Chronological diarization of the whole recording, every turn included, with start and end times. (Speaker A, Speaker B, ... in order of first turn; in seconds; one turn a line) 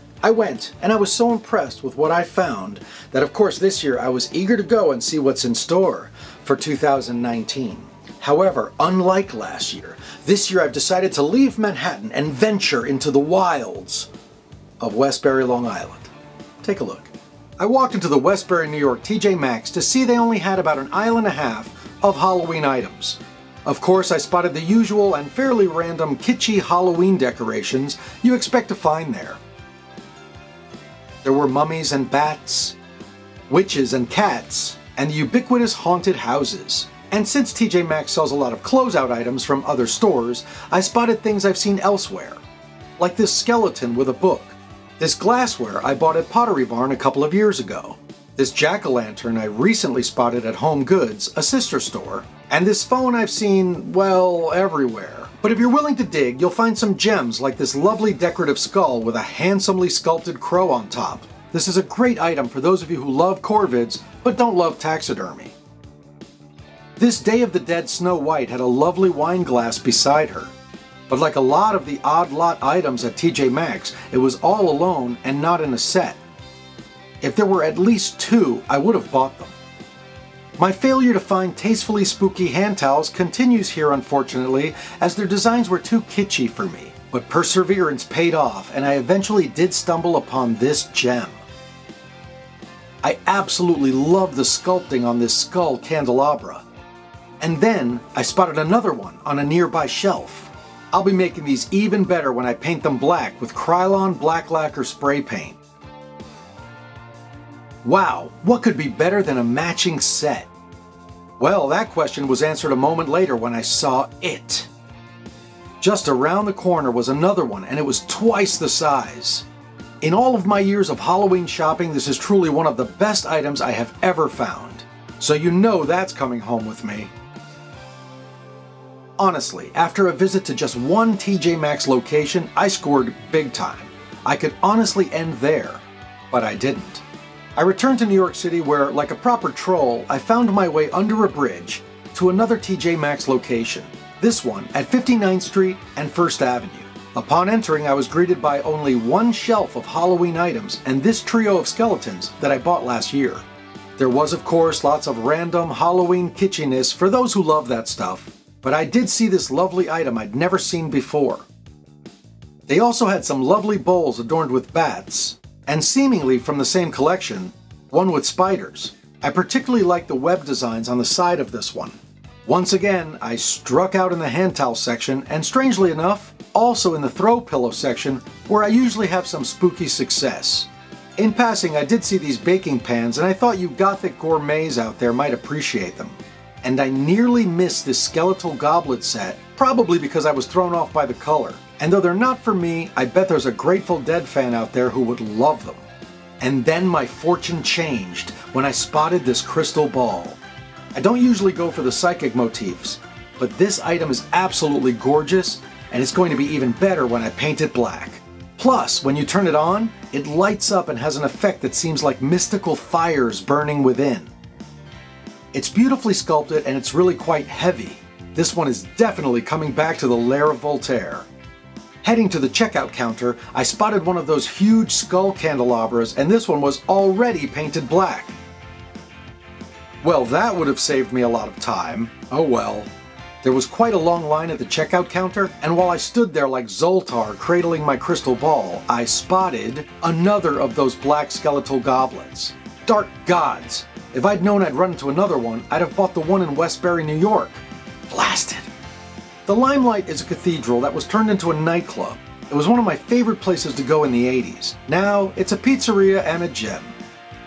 Speaker A: 0.2-14.1
Speaker A: 14.8-29.4
Speaker A: 31.2-32.8
Speaker A: 33.5-42.4
Speaker A: 43.0-65.5
Speaker A: 67.0-70.5
Speaker A: 71.1-76.2
Speaker A: 77.2-79.5
Speaker A: 80.6-91.4
Speaker A: 93.0-96.7
Speaker A: 97.4-105.6
Speaker A: 107.8-110.5
Speaker A: 111.4-114.7
Speaker A: 115.8-119.5
Speaker A: 120.0-127.1
Speaker A: 129.2-137.0
Speaker A: 137.6-153.4
Speaker A: 154.0-161.5
Speaker A: 162.7-195.8
Speaker A: 196.4-200.4
Speaker A: 200.9-214.3
Speaker A: 215.5-221.3
Speaker A: 222.0-228.3
Speaker A: 230.0-232.9
Speaker A: 233.4-248.7
Speaker A: 249.4-256.9